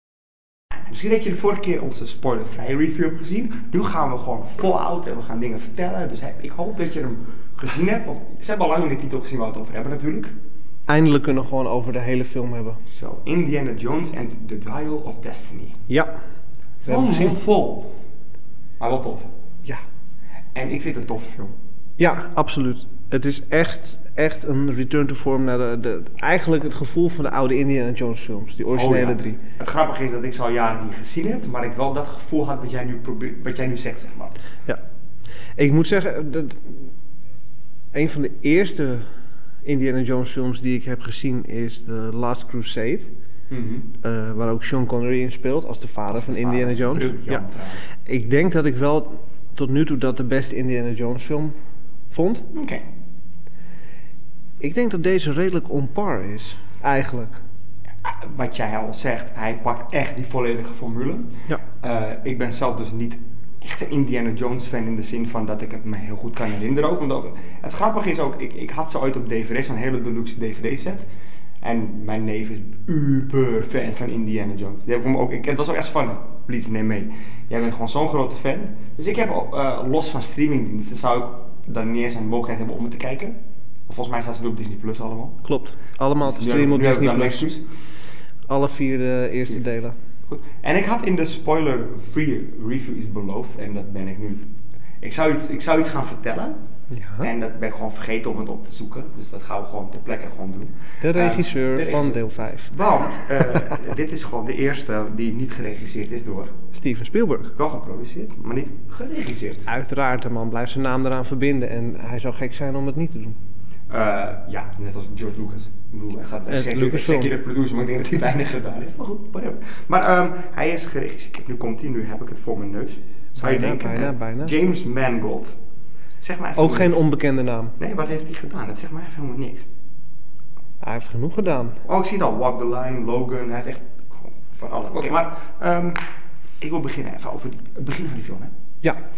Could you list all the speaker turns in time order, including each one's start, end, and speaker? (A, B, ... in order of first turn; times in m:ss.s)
0:00.9-0:10.3 A
0:10.9-0:12.8 B
0:12.9-0:15.8 A
0:15.9-0:16.2 B
0:16.8-0:17.9 A
0:16.9-0:17.4 B
0:18.8-0:19.3 A
0:20.6-0:21.5 A
0:22.0-0:29.4 B
0:28.7-0:34.4 A
0:35.6-0:36.9 B
0:37.9-0:39.1 B
0:39.6-0:43.1 B
0:43.5-0:43.9 A
0:44.0-0:47.4 B
0:46.1-0:47.8 A
0:48.0-0:51.5 B
0:52.1-0:52.5 B
0:52.5-0:52.8 A
0:54.6-0:57.4 B
0:58.0-1:11.1 A
1:11.6-1:23.4 A
1:23.9-1:25.4 A
1:25.4-1:27.5 B
1:26.2-1:27.6 A
1:28.5-1:30.0 B
1:30.3-1:34.5 A
1:35.0-1:36.6 A
1:36.9-1:37.3 B
1:37.2-1:46.6 A
1:41.0-1:43.7 B
1:46.7-1:47.6 B
1:47.6-1:49.7 A
1:49.7-1:53.4 B
1:53.9-2:05.6 A
1:56.4-1:57.3 B
2:03.4-2:04.6 B
2:06.2-2:07.0 A
2:06.6-2:07.8 B
2:07.8-2:09.7 A
2:10.8-2:11.8 B
2:11.8-2:16.0 A
2:16.6-2:18.5 A